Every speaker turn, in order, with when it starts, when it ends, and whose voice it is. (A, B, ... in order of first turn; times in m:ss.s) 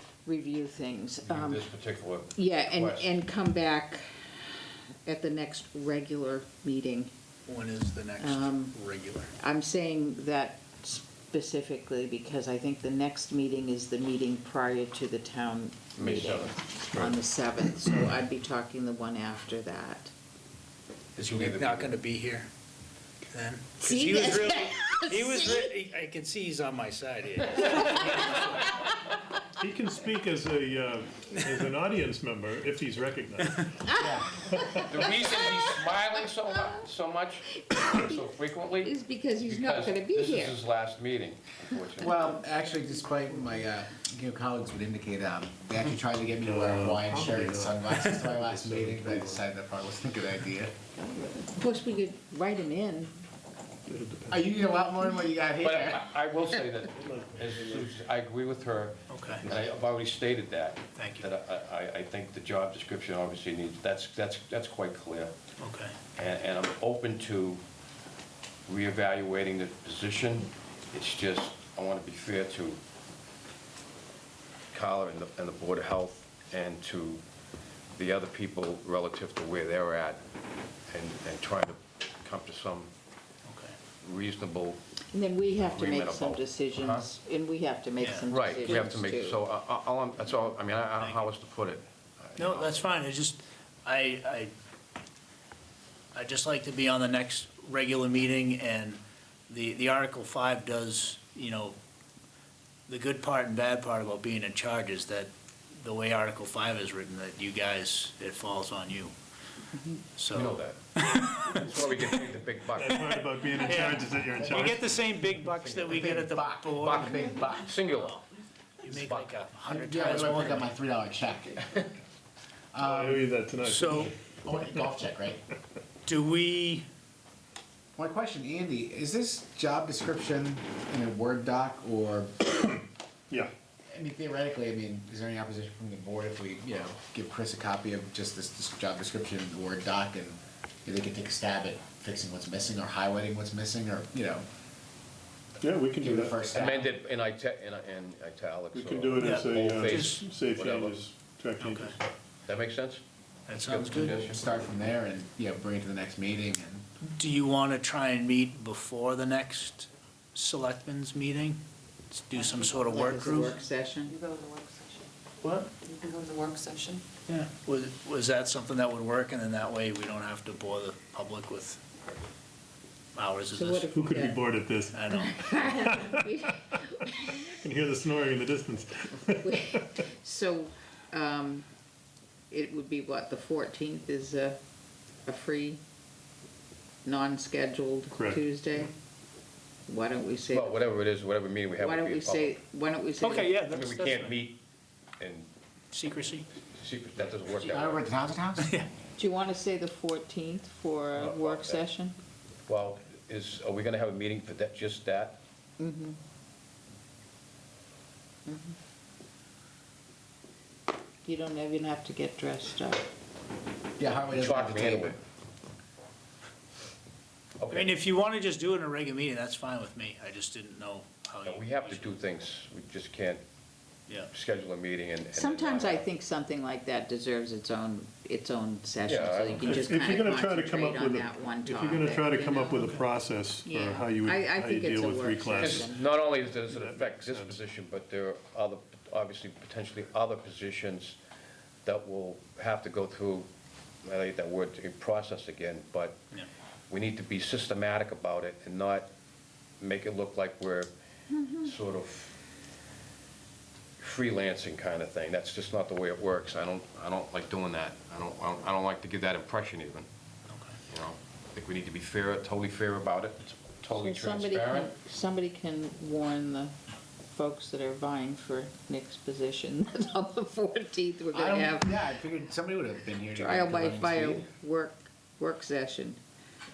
0:00.2-0:01.7 A
0:01.2-0:03.1 B
0:02.3-0:07.1 A
0:07.4-0:09.3 C
0:08.2-0:08.8 A
0:09.4-0:20.1 A
0:16.0-0:17.2 B
0:21.2-0:22.0 B
0:21.2-0:22.5 C
0:23.3-0:28.8 C
0:23.8-0:25.7 A
0:29.6-0:34.9 D
0:33.8-0:36.0 A
0:34.0-0:34.4 E
0:34.9-0:42.2 B
0:37.5-0:38.3 A
0:38.8-0:40.6 A
0:42.0-0:50.7 E
0:46.4-0:49.4 D
0:51.0-0:51.5 D
0:51.5-0:53.1 A
0:53.8-0:54.5 D
0:54.3-0:56.1 E
0:55.6-1:05.3 B
0:56.9-0:57.9 D
0:59.1-0:59.4 C
1:00.9-1:01.3 C
1:05.6-1:05.9 C
1:06.1-1:07.6 B
1:08.7-1:12.8 B
1:14.7-1:17.2 B
1:17.9-1:20.2 B
1:20.9-1:22.9 B
1:23.4-1:23.7 C
1:24.0-1:24.8 B
1:25.1-1:29.4 A
1:25.5-1:27.1 B
1:28.0-1:28.3 C
1:28.3-1:32.8 B
1:31.0-1:31.2 C
1:32.4-1:34.5 C
1:36.1-1:41.8 C
1:42.9-1:49.1 C
1:49.7-1:50.0 A
1:50.1-1:52.1 C
1:50.3-1:50.8 B
1:51.4-1:53.2 B
1:52.7-1:54.8 D
1:53.5-1:58.2 C
1:54.4-1:54.7 E
1:55.8-1:57.7 E
1:56.8-1:58.2 B
1:58.8-2:00.7 C
1:58.9-1:59.3 B
1:59.7-2:01.7 E
2:02.7-2:03.3 E
2:02.8-2:04.1 D
2:03.6-2:04.1 C
2:04.4-2:05.4 E
2:06.0-2:06.8 C
2:08.0-2:12.5 E
2:13.9-2:24.4 E
2:25.6-2:26.4 D
2:26.0-2:26.9 E
2:26.5-2:31.0 B
2:28.7-2:32.0 D
2:29.2-2:30.2 C
2:31.6-2:32.0 C
2:32.4-2:34.4 B
2:33.5-2:34.3 C
2:34.0-2:36.8 E
2:37.0-2:41.6 C
2:42.1-2:43.6 C
2:42.5-2:42.7 F
2:42.8-2:44.2 A
2:44.0-2:45.1 F
2:45.4-2:45.7 C
2:45.7-2:47.0 F
2:47.3-2:51.8 C
2:53.1-2:53.9 C
2:53.5-2:54.4 A
2:53.9-3:00.0 D
2:54.9-2:55.3 C
2:55.2-2:57.5 A
2:59.4-3:01.7 A
3:02.5-3:04.6 A
3:05.2-3:05.8 A
3:07.0-3:08.9 A
3:08.2-3:08.4 D
3:09.9-3:10.8 A
3:10.5-3:12.6 B
3:11.8-3:13.6 A
3:13.2-3:14.4 C
3:13.6-3:14.6 B
3:15.2-3:15.5 B
3:15.9-3:16.4 C
3:16.7-3:18.0 B
3:17.6-3:18.7 E
3:18.6-3:18.9 C
3:19.2-3:22.1 A
3:21.2-3:21.8 B
3:22.7-3:25.4 B
3:25.8-3:26.2 A
3:28.4-3:28.8 A
3:31.2-3:33.1 A
3:34.0-3:35.2 E
3:34.2-3:35.2 B
3:37.6-3:38.0 B
3:37.7-3:42.2 C
3:41.4-3:43.4 B
3:44.3-3:46.0 B
3:45.3-3:52.9 A
3:49.0-3:50.0 B
3:49.6-3:57.6 D
3:52.8-3:53.0 C
3:53.6-3:56.0 A
3:55.6-4:01.2 B
4:01.8-4:03.5 B
4:04.0-4:06.2 B
4:06.9-4:09.1 B
4:09.8-4:10.9 B
4:11.3-4:11.7 A
4:11.6-4:12.4 B
4:14.0-4:20.1 B
4:20.5-4:20.8 C
4:20.9-4:24.9 B
4:23.9-4:26.7 A
4:27.3-4:31.9 A
4:31.3-4:34.4 E
4:33.4-4:36.2 A